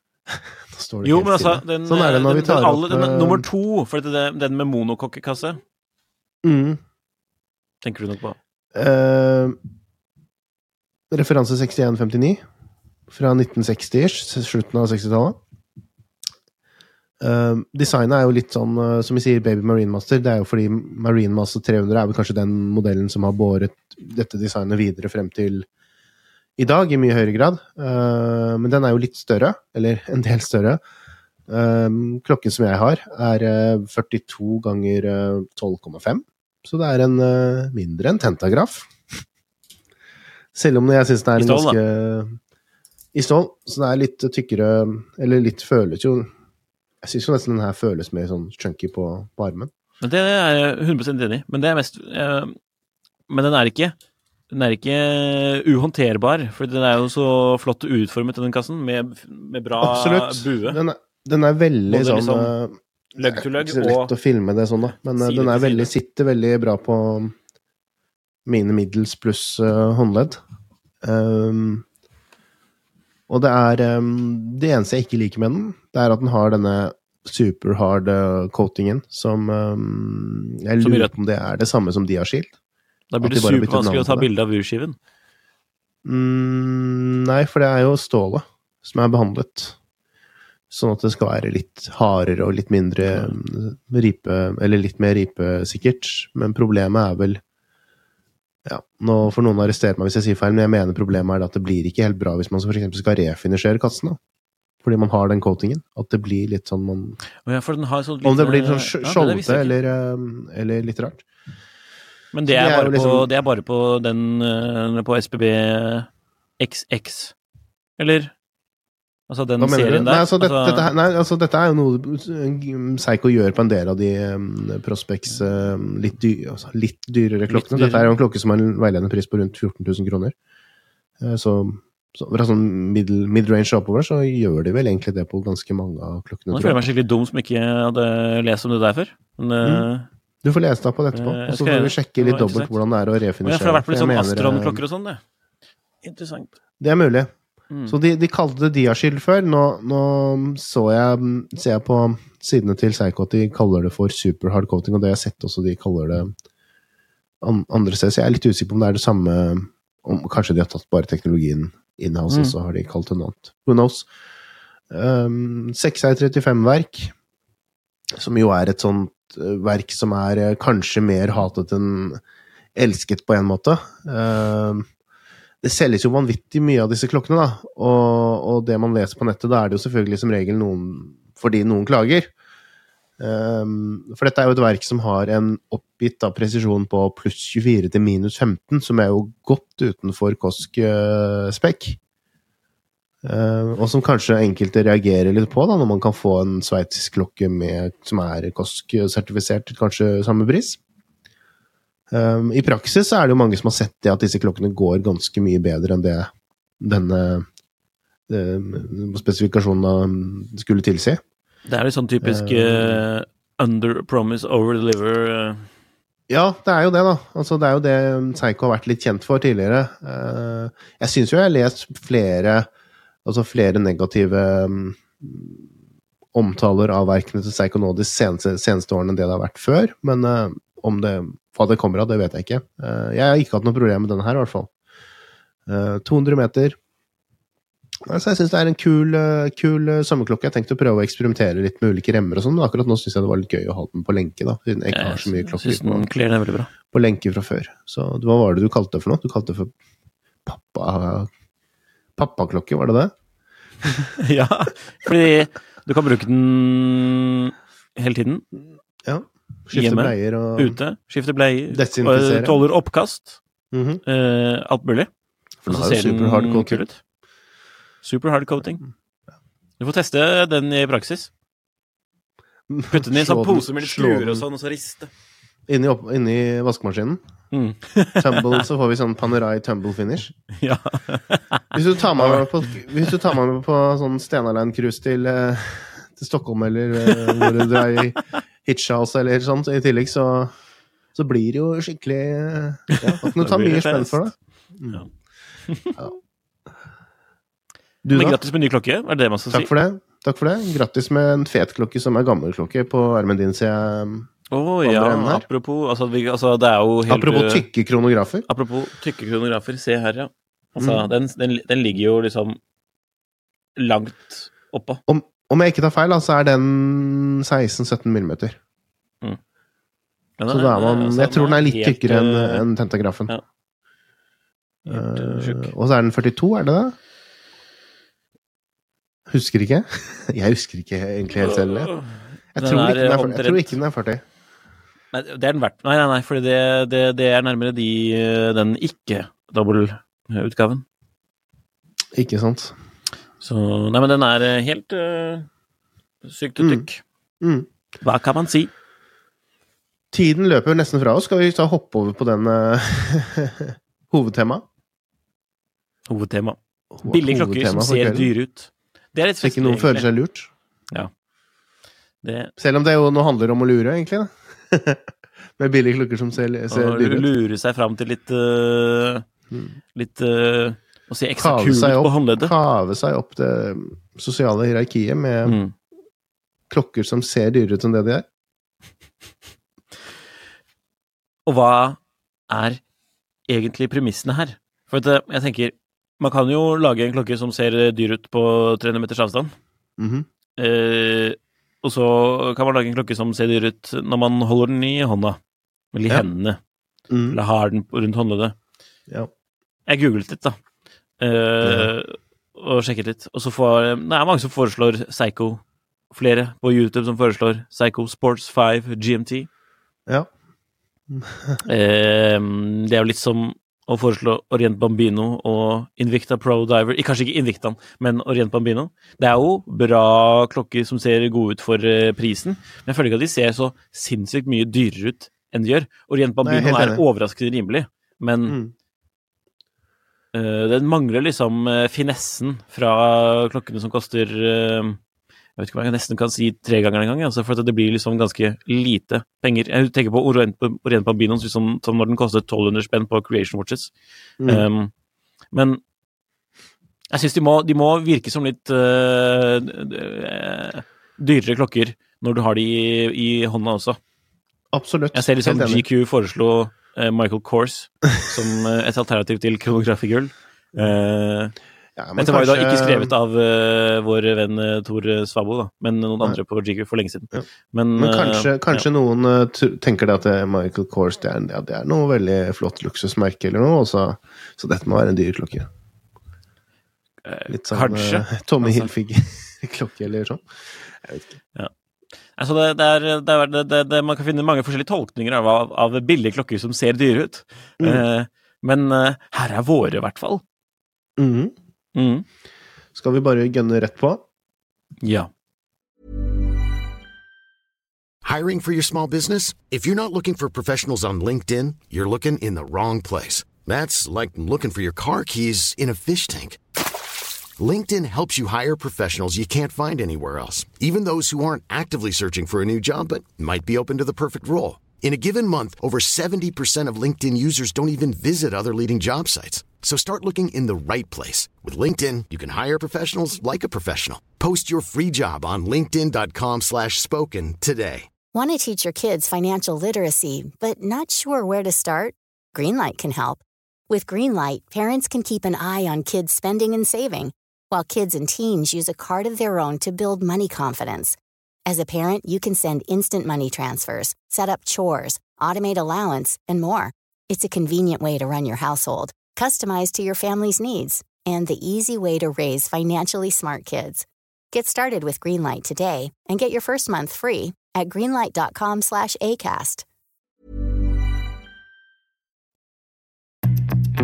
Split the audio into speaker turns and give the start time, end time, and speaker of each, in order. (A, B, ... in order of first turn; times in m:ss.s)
0:00.3-0:03.5 A
0:01.0-0:05.6 B
0:06.4-0:06.8 A
0:07.8-0:08.4 B
0:08.7-0:09.6 A
0:11.1-0:12.4 A
0:13.1-0:15.4 A
0:17.2-0:25.7 A
0:26.6-0:30.8 A
0:31.5-0:38.9 A
0:40.5-0:42.4 A
0:41.4-0:41.8 B
0:43.1-0:46.3 A
0:47.0-0:49.7 A
0:50.0-0:52.6 B
0:53.3-0:54.0 B
0:54.5-1:00.8 B
0:59.8-1:07.4 A
1:01.9-1:02.6 B
1:03.2-1:04.1 B
1:05.2-1:05.9 B
1:08.5-1:10.4 A
1:11.0-1:11.8 A
1:13.3-1:22.6 A
1:20.8-1:21.1 B
1:23.1-1:25.0 B
1:23.2-1:24.3 A
1:26.0-1:29.8 A
1:30.7-1:37.4 A
1:33.0-1:33.4 B
1:38.7-1:44.2 A
1:44.8-1:47.2 A
1:47.4-1:49.7 B
1:48.2-1:51.2 A
1:52.3-1:56.1 B
1:52.5-1:53.3 A
1:56.6-1:57.3 B
1:58.0-1:58.3 B
1:59.3-2:00.9 B
1:59.6-2:10.3 A
2:07.5-2:08.1 B
2:11.2-2:16.8 A
2:16.5-2:20.1 B
2:20.4-2:24.8 A
2:21.1-2:22.8 B
2:23.4-2:25.2 B
2:26.0-2:26.5 B
2:26.8-2:27.3 A
2:27.7-2:28.0 B
2:27.9-2:36.3 A
2:37.4-2:44.1 A
2:42.3-2:42.6 B
2:44.9-2:47.1 A
2:48.1-2:52.2 A
2:52.8-2:54.9 A
2:55.6-3:02.3 A
3:03.2-3:12.0 A
3:13.2-3:20.8 A
3:22.1-3:27.5 A
3:28.3-3:31.2 A
3:31.7-3:35.7 B
3:32.2-3:33.0 A
3:36.3-3:42.7 A
3:43.2-3:45.6 A
3:46.3-3:54.7 A
3:55.7-3:56.8 A
3:58.1-4:06.1 A
4:04.9-4:06.7 B
4:06.9-4:09.7 A
4:10.5-4:11.3 A
4:12.2-4:13.1 A
4:14.2-4:18.4 B
4:19.0-4:20.8 A
4:19.7-4:23.4 B
4:21.7-4:22.6 A
4:23.7-4:24.0 A
4:24.1-4:25.1 B
4:25.6-4:26.8 A
4:25.7-4:27.0 B
4:28.0-4:28.8 B
4:29.8-4:31.3 B
4:32.7-4:34.5 A
4:32.9-4:35.1 B
4:35.7-4:37.2 A
4:37.5-4:38.6 B
4:38.2-4:40.4 A
4:40.6-4:41.6 B
4:41.7-4:50.5 A
4:42.2-4:43.1 B
4:47.0-4:47.9 B
4:51.2-4:55.0 A
4:53.0-4:54.3 B
4:55.7-4:56.0 B
4:58.0-4:58.4 A
4:58.1-4:59.7 B
4:59.5-5:05.4 A
5:04.5-5:07.7 B
5:07.1-5:08.5 A
5:08.5-5:12.6 B
5:10.8-5:11.1 A
5:13.8-5:15.0 B
5:15.1-5:18.6 A
5:20.4-5:22.6 B
5:20.5-5:23.3 A
5:24.9-5:27.0 A
5:24.9-5:25.7 B
5:29.3-5:31.9 A
5:31.4-5:33.8 B
5:32.6-5:34.2 A
5:35.1-5:40.8 B
5:42.1-5:42.8 A
5:43.4-5:45.5 B
5:46.2-5:47.0 B
5:46.6-5:46.9 A
5:47.4-5:47.7 A
5:48.0-5:48.7 B
5:50.1-5:54.6 A
5:56.1-6:00.1 B
5:56.9-5:58.3 A
5:59.4-6:00.5 A
6:02.2-6:02.5 B
6:02.6-6:05.0 A
6:05.6-6:07.3 A
6:06.7-6:09.2 B
6:09.5-6:09.8 A
6:10.0-6:12.6 B
6:11.4-6:15.6 A
6:15.4-6:15.7 B
6:16.7-6:18.2 A
6:21.5-6:22.8 B
6:23.5-6:29.5 B
6:30.0-6:30.3 A
6:30.6-6:35.4 B
6:35.9-6:36.6 B
6:37.1-6:37.4 A
6:37.3-6:38.6 B
6:39.9-6:40.6 B
6:41.2-6:49.5 B
6:41.6-6:41.9 A
6:51.1-6:51.6 A
6:51.7-7:08.6 B
7:06.4-7:07.0 A
7:08.5-7:08.7 A
7:10.3-7:15.0 B
7:15.6-7:23.9 B
7:24.4-7:24.9 B
7:25.5-7:25.8 B
7:27.1-7:34.0 B
7:34.7-7:35.8 A
7:35.1-7:41.6 B
7:42.0-7:43.1 A
7:42.2-7:48.9 B
7:48.0-7:55.7 A
7:57.2-7:58.9 B
7:57.5-8:01.3 A
8:02.4-8:10.4 B
8:11.2-8:11.6 A
8:12.0-8:12.2 B
8:13.0-8:14.2 A
8:15.0-8:15.3 B
8:18.2-8:26.6 C
8:27.6-8:48.1 C
8:48.3-9:19.8 D